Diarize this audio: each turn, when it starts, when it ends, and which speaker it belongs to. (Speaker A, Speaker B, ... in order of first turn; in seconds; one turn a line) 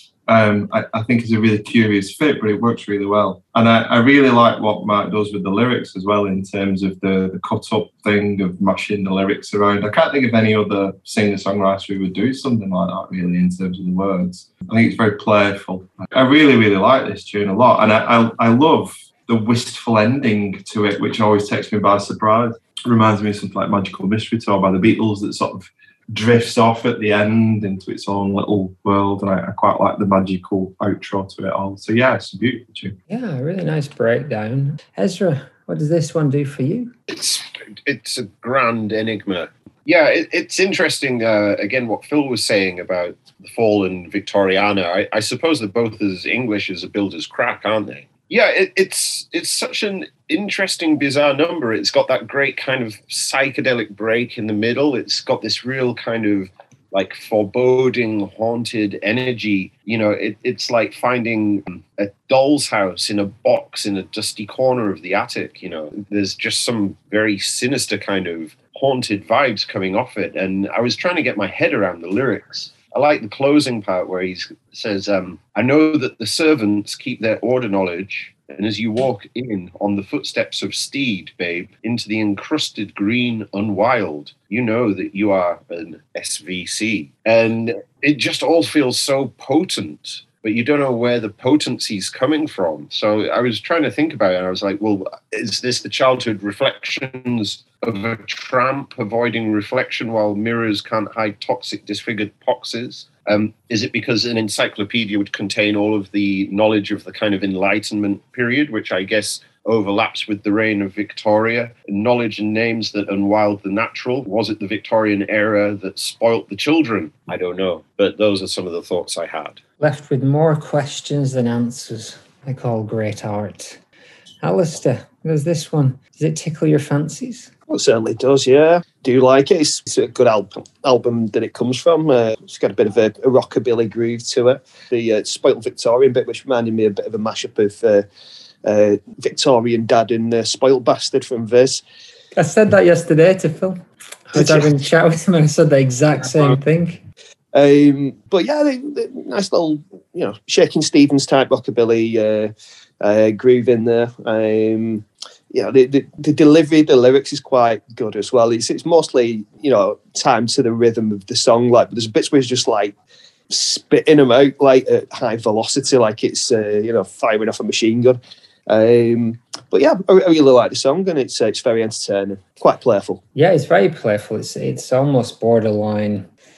Speaker A: 0.3-33.0
Speaker B: 33.1-36.9
Speaker C: 37.1-119.6
Speaker B: 119.8-123.8
Speaker B: 124.4-127.5
Speaker D: 127.7-138.1
Speaker D: 138.6-141.8
Speaker B: 142.3-147.0
Speaker D: 144.3-144.7
Speaker D: 147.5-152.5
Speaker D: 153.0-162.9
Speaker D: 163.5-173.2
Speaker B: 173.3-176.3